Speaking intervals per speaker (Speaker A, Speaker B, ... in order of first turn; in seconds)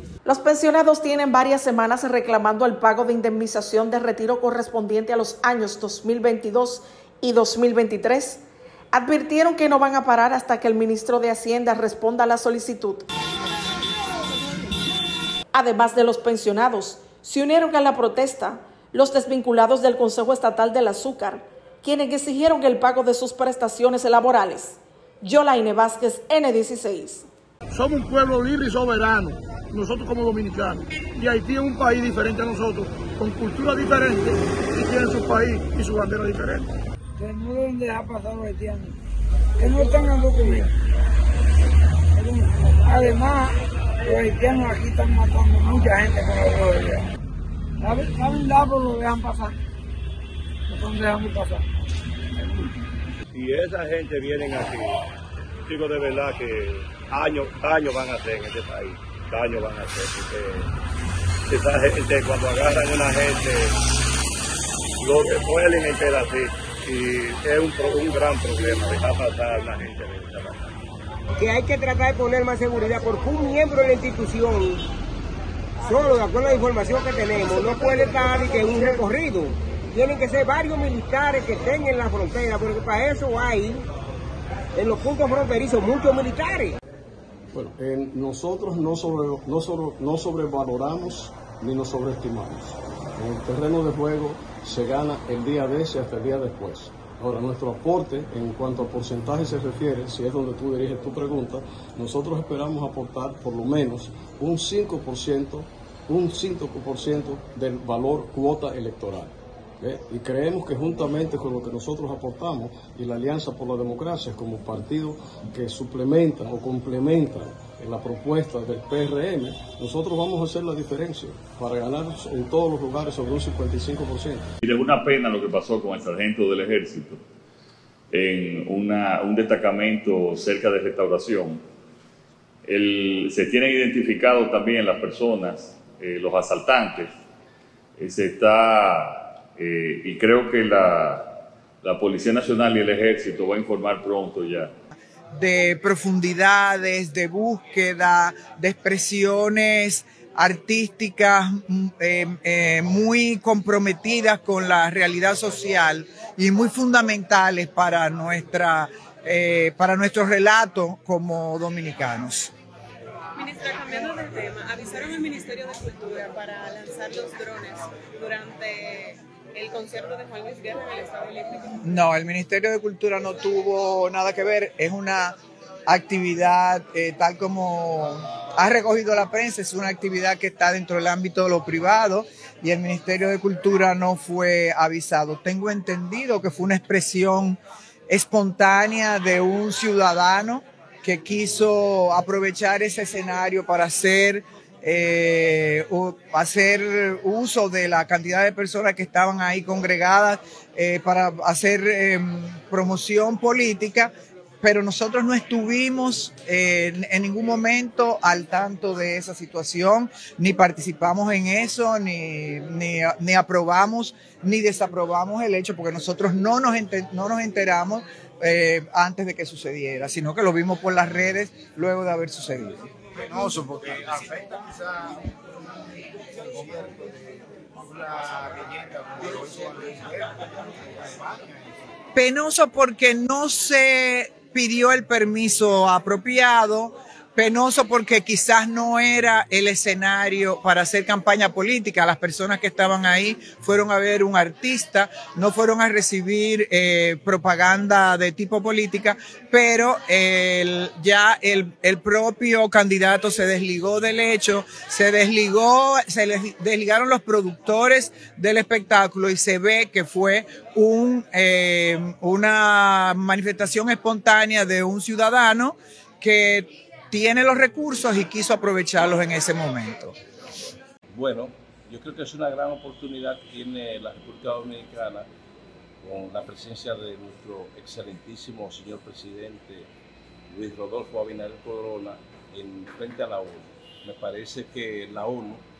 Speaker A: 0.2-8.4, 8.9-13.0, 15.5-27.3
Speaker B: 27.7-36.7
Speaker C: 37.2-39.0, 39.6-40.7, 42.1-47.1, 47.8-49.5, 50.7-51.6, 52.4-52.7
Speaker D: 53.3-55.0, 55.7-60.7, 61.5-63.8, 65.0-70.7
Speaker E: 71.4-74.9, 75.8-83.8, 84.8-86.8
Speaker F: 87.5-124.5
Speaker G: 124.6-127.2, 128.1-131.6, 132.7-137.1, 138.0-141.3, 141.8-144.7
Speaker H: 145.3-162.5, 171.8-175.3, 175.9-222.8, 232.1-270.1
Speaker I: 163.3-171.8
Speaker J: 223.2-225.4, 226.2-231.8
Speaker K: 271.1-275.3, 276.0-279.9, 280.5-285.6